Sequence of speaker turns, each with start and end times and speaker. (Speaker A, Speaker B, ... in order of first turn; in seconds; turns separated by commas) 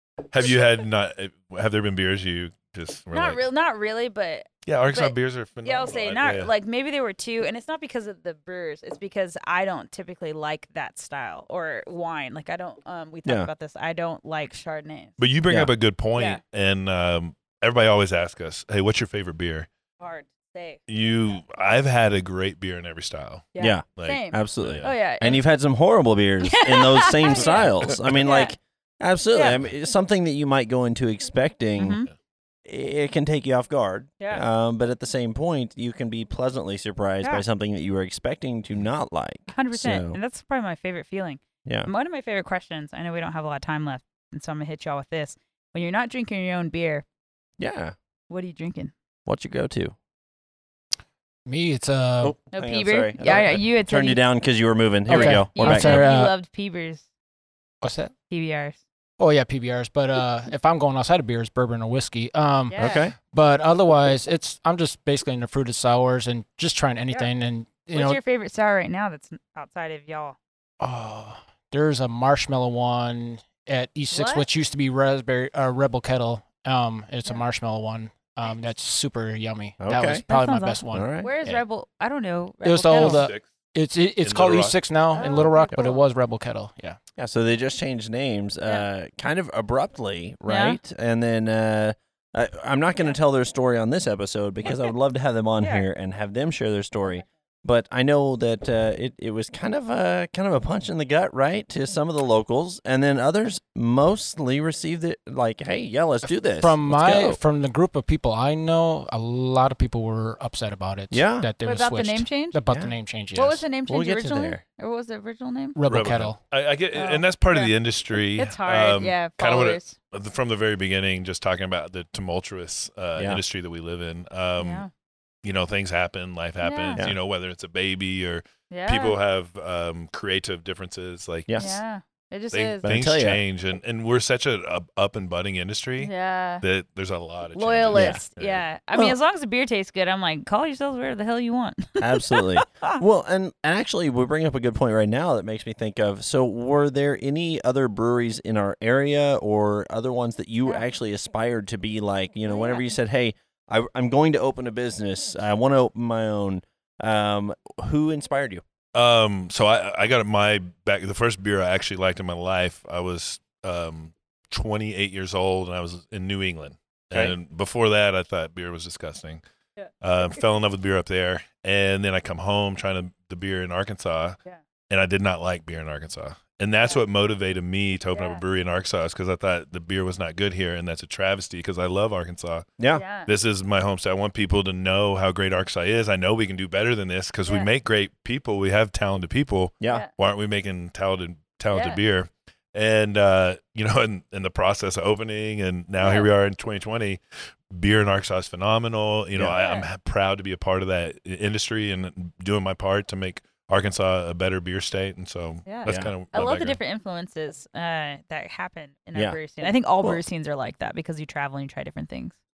Speaker A: 0.3-3.4, Speaker B: 0.4-0.7, Speaker B: 3.1-15.2, Speaker A: 4.6-6.5, Speaker C: 13.2-13.5, Speaker A: 15.2-19.7, Speaker B: 16.1-16.4, Speaker B: 20.0-20.8, Speaker A: 20.9-24.9, Speaker B: 23.5-25.4, Speaker C: 23.6-32.0, Speaker B: 26.4-28.5, Speaker B: 31.8-32.1, Speaker C: 32.6-40.2, Speaker B: 39.5-47.0, Speaker C: 47.6-47.9, Speaker B: 48.3-48.9, Speaker C: 49.2-49.9, Speaker D: 51.5-52.3, Speaker C: 52.2-56.1, Speaker B: 52.5-54.2, Speaker D: 55.1-56.3, Speaker B: 55.1-57.0, Speaker D: 57.8-58.1, Speaker B: 58.3-58.8, Speaker D: 59.2-68.2, Speaker B: 62.7-63.0, Speaker C: 62.8-63.1, Speaker B: 67.9-70.3, Speaker D: 70.8-81.6, Speaker B: 74.1-74.4, Speaker C: 79.8-80.2, Speaker B: 80.3-83.3, Speaker C: 80.9-81.3, Speaker D: 82.6-87.0, Speaker A: 82.9-83.4, Speaker A: 84.2-84.8, Speaker B: 85.1-86.0, Speaker C: 87.2-107.4, Speaker B: 90.5-90.8, Speaker D: 106.6-113.6, Speaker C: 111.1-111.5, Speaker B: 111.6-112.6, Speaker C: 112.7-112.9, Speaker B: 113.3-115.8, Speaker C: 113.9-114.6, Speaker D: 115.8-116.4, Speaker A: 115.9-124.9, Speaker B: 116.9-117.7, Speaker B: 118.3-120.0, Speaker C: 123.2-123.4, Speaker B: 124.6-124.9, Speaker A: 125.4-131.7, Speaker B: 126.6-127.0, Speaker B: 128.7-129.2, Speaker C: 131.5-131.8, Speaker B: 131.6-132.8, Speaker A: 132.5-138.6, Speaker C: 132.8-133.4, Speaker B: 136.0-136.6, Speaker B: 137.5-143.0, Speaker C: 137.9-138.2, Speaker C: 142.0-158.6, Speaker B: 152.5-152.9, Speaker A: 158.9-169.4, Speaker B: 169.8-170.4, Speaker A: 170.0-174.4, Speaker A: 174.9-182.7, Speaker B: 178.1-178.4, Speaker C: 182.8-183.0, Speaker B: 182.9-183.3, Speaker A: 183.2-206.8, Speaker B: 191.7-192.0, Speaker B: 196.0-196.3, Speaker C: 199.3-199.6, Speaker B: 199.6-199.8, Speaker B: 205.7-212.3, Speaker C: 205.8-206.1